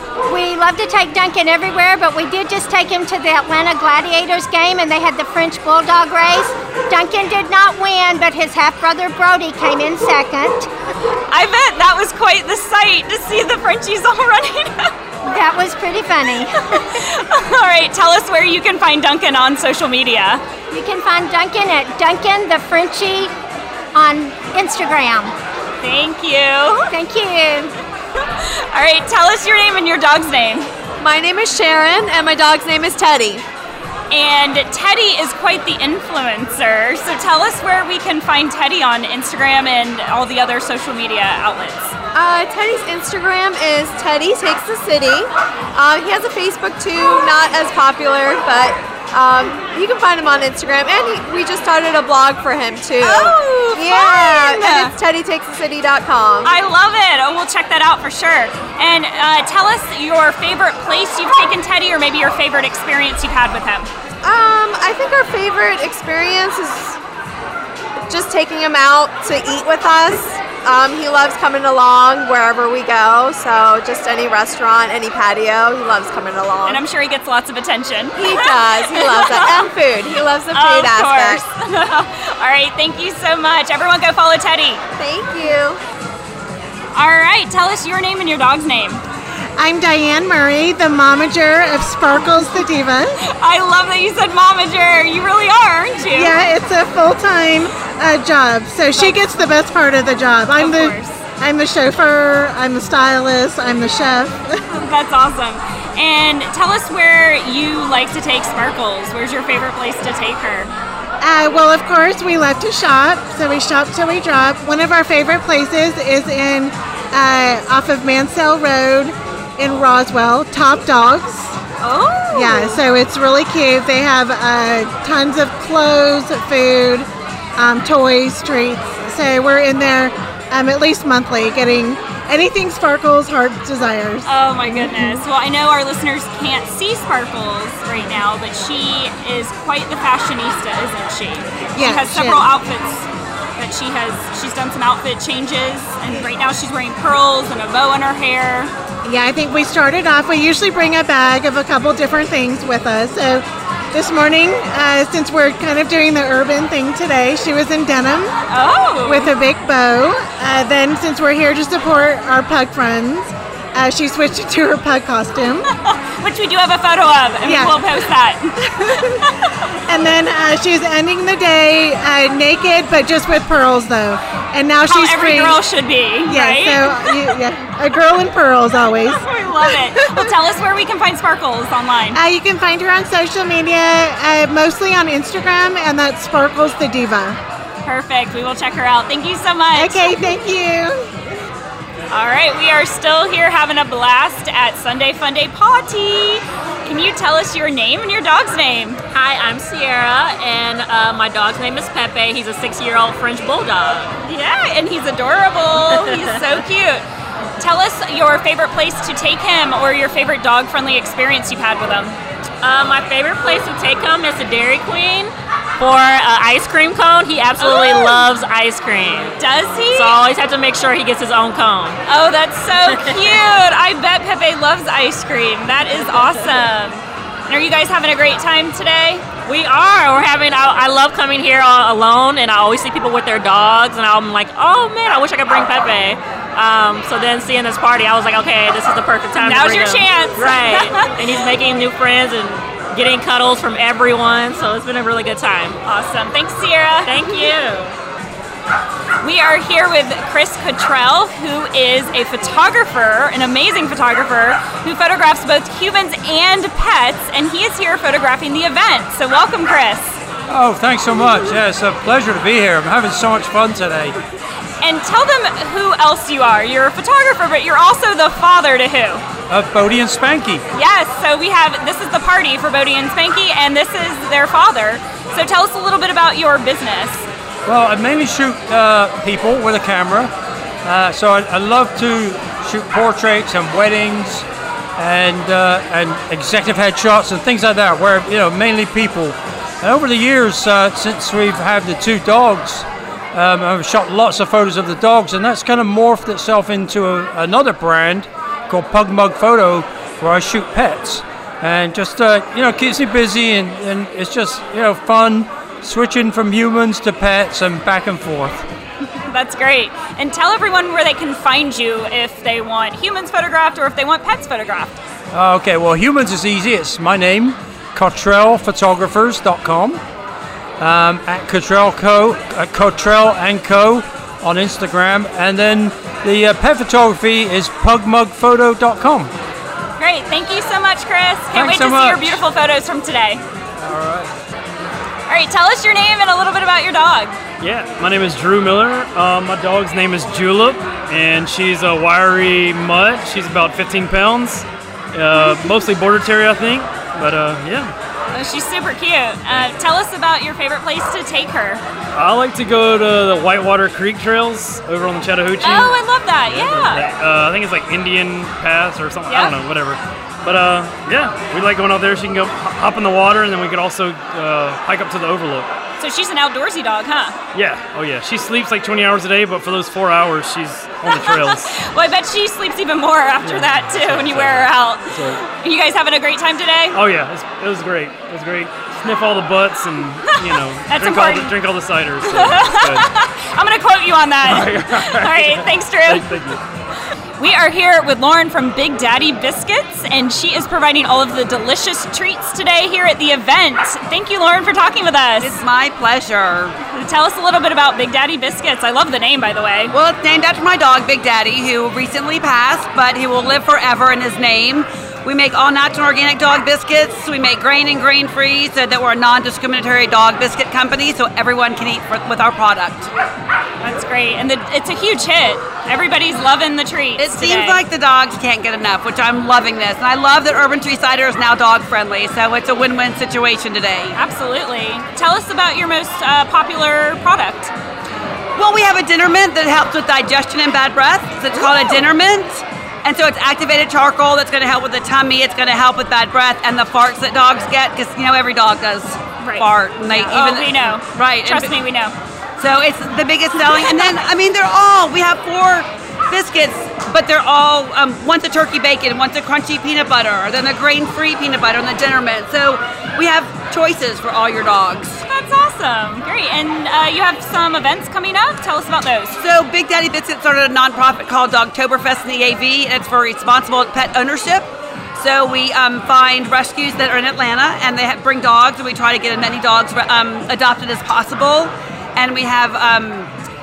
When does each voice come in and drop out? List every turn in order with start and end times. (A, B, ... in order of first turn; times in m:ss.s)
0:00.3-0:10.7 A
0:11.3-0:14.9 B
0:15.2-0:16.6 A
0:16.7-0:20.4 B
0:20.7-0:23.3 A
0:23.9-0:25.3 A
0:25.8-0:26.9 B
0:26.9-0:27.8 A
0:28.4-0:30.7 B
0:31.0-0:33.4 C
0:34.1-0:41.9 B
0:42.2-0:56.5 C
0:53.0-0:54.9 B
0:56.4-1:03.9 B
1:04.2-1:07.0 C
1:08.1-1:16.8 C
1:16.7-1:19.7 B
1:18.1-1:21.4 C
1:20.5-1:24.8 B
1:25.0-1:25.8 C
1:26.9-1:29.0 B
1:29.6-1:33.2 D
1:33.4-1:36.4 B
1:36.1-1:44.5 D
1:38.9-1:39.2 B
1:40.6-1:41.2 B
1:44.7-1:50.7 B
1:51.2-2:01.6 D
2:01.8-2:02.8 B
2:02.3-2:15.2 D
2:14.3-2:28.7 B
2:21.8-2:22.5 D
2:29.0-2:38.4 D
2:38.5-2:39.3 B
2:39.0-2:45.7 D
2:45.9-2:49.5 B
2:47.4-2:48.0 D
2:48.7-2:49.1 D
2:49.9-2:55.6 D
2:54.9-2:57.2 B
2:56.3-2:59.3 D
2:59.1-3:02.2 B
3:02.1-3:07.4 D
3:07.8-3:10.1 B
3:09.7-3:11.4 D
3:12.1-3:19.0 B
3:19.1-3:24.1 E
3:24.2-3:27.0 B
3:27.6-3:32.2 B
3:32.6-3:39.4 E
3:37.6-3:38.2 B
3:39.4-3:40.2 B
3:39.9-3:42.0 E
3:42.1-3:49.2 B
3:42.9-3:43.2 E
3:49.5-4:05.8 E
3:59.4-4:01.0 B
4:05.8-4:07.2 B
4:07.1-4:08.0 E
4:09.2-4:20.2 B
4:20.5-4:24.2 F
4:24.8-4:29.2 B
4:29.5-4:30.6 F
4:30.7-4:37.3 B
4:37.7-4:40.3 F
4:40.8-5:08.7 F
5:09.1-5:15.0 B
5:15.3-5:20.0 F
5:20.8-5:29.3 F
5:30.0-5:33.4 B
5:31.5-5:32.4 F
5:33.8-5:34.3 G
5:35.3-5:37.4 B
5:37.6-5:47.9 G
5:48.3-5:51.8 B
5:52.1-6:05.7 G
5:55.6-5:57.1 B
5:59.3-5:59.6 B
6:06.0-6:07.4 B
6:07.5-6:11.8 G
6:11.0-6:17.0 B
6:13.4-6:15.4 G
6:16.9-6:23.1 G
6:20.2-6:21.6 B
6:22.2-6:26.3 B
6:24.4-6:26.6 G
6:27.4-6:35.6 B
6:35.4-6:36.8 H
6:36.9-6:39.9 B
6:39.9-6:53.1 H
6:53.8-6:57.8 B
6:57.2-7:04.2 H
7:04.2-7:07.7 B
7:08.6-7:21.7 H
7:19.4-7:22.1 B
7:22.6-7:35.2 H
7:35.3-7:39.4 B
7:39.3-7:53.3 H